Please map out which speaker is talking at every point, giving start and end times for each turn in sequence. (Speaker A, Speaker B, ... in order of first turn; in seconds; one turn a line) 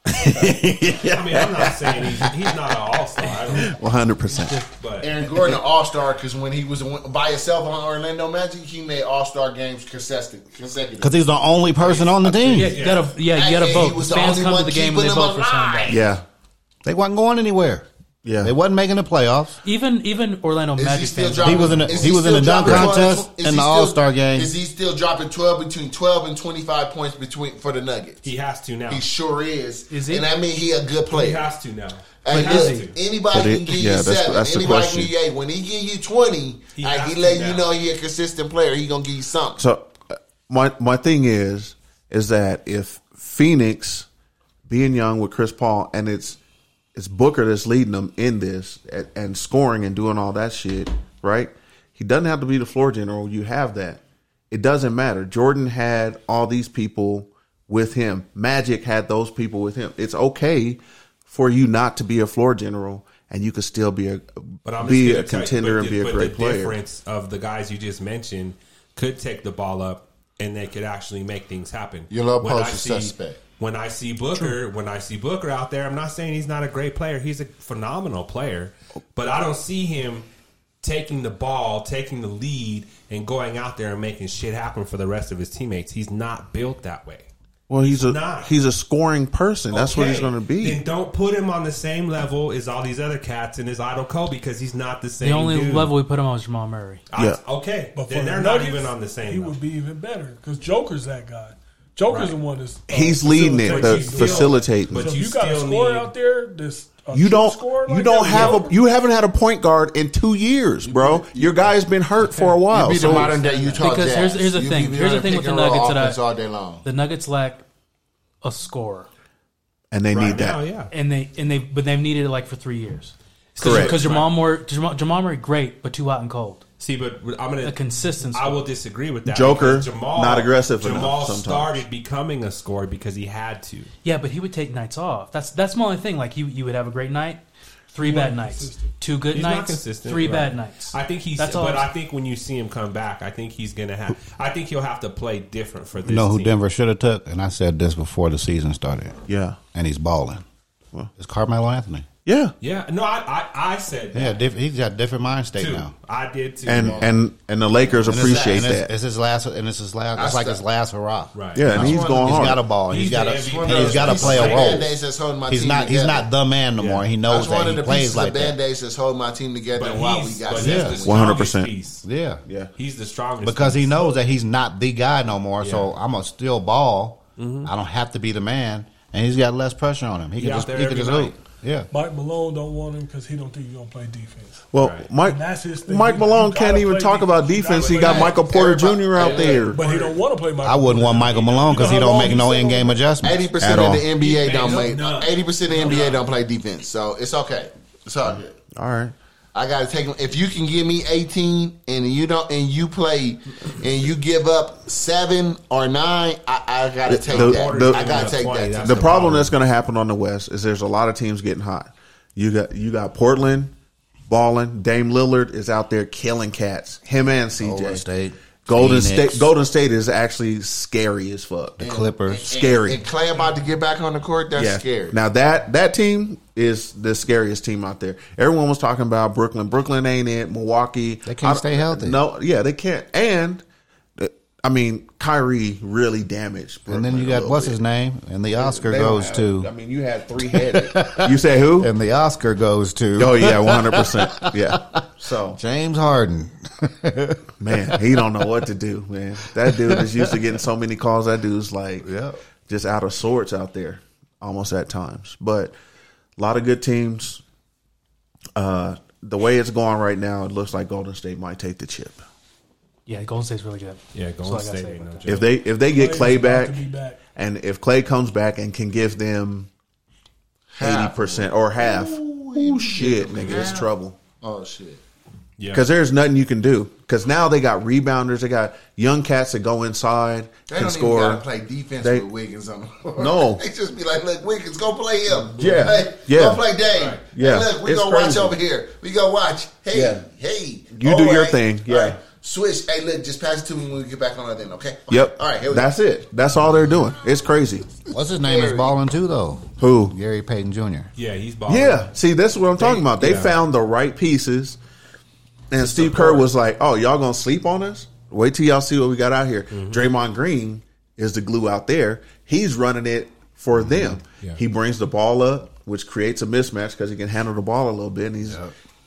Speaker A: 0.2-1.1
Speaker B: 0.3-1.6
Speaker C: 1.1-3.7
Speaker A: 3.5-4.6
Speaker D: 4.3-4.7
Speaker C: 4.8-5.1
Speaker E: 5.0-12.7
Speaker B: 11.0-12.8
Speaker D: 12.5-16.0
Speaker C: 12.6-13.1
Speaker E: 13.3-16.1
Speaker A: 15.9-16.2
Speaker B: 16.8-17.9
Speaker A: 18.2-18.5
Speaker B: 18.4-19.6
Speaker D: 19.6-22.1
Speaker E: 20.8-28.2
Speaker B: 21.4-24.5
Speaker A: 22.6-22.9
Speaker C: 28.2-29.0
Speaker E: 28.9-31.5
Speaker D: 29.9-30.3
Speaker C: 31.1-33.0
Speaker E: 32.2-39.6
Speaker D: 32.3-32.8
Speaker A: 33.3-35.1
Speaker C: 36.8-37.7
Speaker A: 39.6-44.1
Speaker A: 44.7-46.4
Speaker A: 46.9-66.8
Speaker C: 64.6-80.2
Speaker E: 72.1-73.4
Speaker C: 80.8-87.3
Speaker A: 87.7-90.8
Speaker C: 87.8-88.5
Speaker C: 89.7-95.9
Speaker D: 95.2-97.0
Speaker C: 97.1-99.6
Speaker A: 97.1-97.4
Speaker F: 97.9-108.8
Speaker C: 102.1-102.3
Speaker A: 102.9-105.1
Speaker C: 103.6-106.1
Speaker A: 107.1-113.4
Speaker C: 108.3-108.5
Speaker E: 110.8-111.7
Speaker D: 112.3-116.2
Speaker E: 112.7-116.8
Speaker D: 116.8-117.6
Speaker D: 118.4-119.1
Speaker A: 119.9-120.6
Speaker C: 120.1-120.9
Speaker D: 120.9-126.6
Speaker C: 123.5-124.3
Speaker A: 123.6-124.0
Speaker C: 126.8-127.8
Speaker D: 127.6-128.6
Speaker C: 128.3-133.9
Speaker A: 129.2-131.8
Speaker D: 134.0-141.9
Speaker F: 137.9-138.9
Speaker C: 139.3-146.5
Speaker B: 146.0-149.2
Speaker A: 149.3-149.6
Speaker B: 149.7-150.4
Speaker B: 151.2-152.1
Speaker A: 152.2-152.5
Speaker C: 152.6-154.4
Speaker B: 154.1-155.9
Speaker C: 155.6-157.1
Speaker A: 156.6-158.9
Speaker E: 156.7-157.2
Speaker E: 158.0-158.7
Speaker B: 158.1-164.9
Speaker E: 160.2-160.6
Speaker C: 161.3-161.7
Speaker A: 161.5-162.6
Speaker E: 161.7-162.5
Speaker C: 162.9-164.9
Speaker E: 163.2-166.3
Speaker B: 165.5-168.6
Speaker C: 166.8-167.1
Speaker E: 167.2-171.4
Speaker C: 169.7-172.0
Speaker B: 170.5-171.0
Speaker A: 171.0-171.7
Speaker B: 172.0-172.4
Speaker C: 172.8-174.1
Speaker B: 173.4-181.9
Speaker C: 175.6-175.9
Speaker C: 177.4-177.7
Speaker C: 180.4-181.3
Speaker F: 181.9-188.5
Speaker A: 184.7-189.8
Speaker C: 184.8-185.1
Speaker C: 187.8-188.4
Speaker E: 188.0-189.8
Speaker C: 189.2-190.1
Speaker F: 189.6-193.0
Speaker B: 190.6-194.0
Speaker C: 191.2-192.4
Speaker E: 193.2-198.6
Speaker A: 193.6-194.1
Speaker C: 194.2-196.2
Speaker A: 198.7-199.1
Speaker E: 199.5-209.2
Speaker A: 207.1-213.7
Speaker C: 207.3-209.5
Speaker A: 214.3-218.0
Speaker B: 217.6-219.5
Speaker A: 218.7-221.8
Speaker B: 221.8-222.5
Speaker E: 221.8-225.2
Speaker A: 222.4-223.0
Speaker A: 224.5-233.6
Speaker B: 231.2-232.2
Speaker A: 234.2-237.8
Speaker B: 236.9-239.7
Speaker A: 238.6-241.9
Speaker B: 240.4-248.5
Speaker A: 243.2-245.6
Speaker A: 247.6-252.1
Speaker B: 249.5-250.4
Speaker B: 252.0-252.4
Speaker A: 252.7-255.7
Speaker A: 256.4-257.4
Speaker A: 258.6-262.2
Speaker D: 263.1-265.4
Speaker C: 264.1-265.5
Speaker A: 265.2-266.8
Speaker F: 265.8-267.2
Speaker A: 267.3-269.7
Speaker E: 270.7-273.9
Speaker A: 270.8-274.2
Speaker C: 273.4-273.7
Speaker E: 274.4-275.0
Speaker C: 275.6-275.9
Speaker A: 275.7-281.4
Speaker E: 280.7-295.9
Speaker A: 282.0-282.2
Speaker A: 283.2-283.6
Speaker A: 285.5-286.6
Speaker C: 285.6-286.0
Speaker C: 286.9-287.2
Speaker A: 287.2-288.6
Speaker A: 289.9-290.2
Speaker A: 290.9-292.2
Speaker A: 295.1-298.0
Speaker B: 298.1-301.1
Speaker E: 298.4-298.9
Speaker A: 299.8-300.1
Speaker C: 301.1-302.1
Speaker A: 301.7-304.8
Speaker C: 302.8-303.6
Speaker A: 305.7-318.6
Speaker C: 309.7-310.1
Speaker B: 313.8-314.1
Speaker C: 314.2-314.6
Speaker B: 318.4-318.7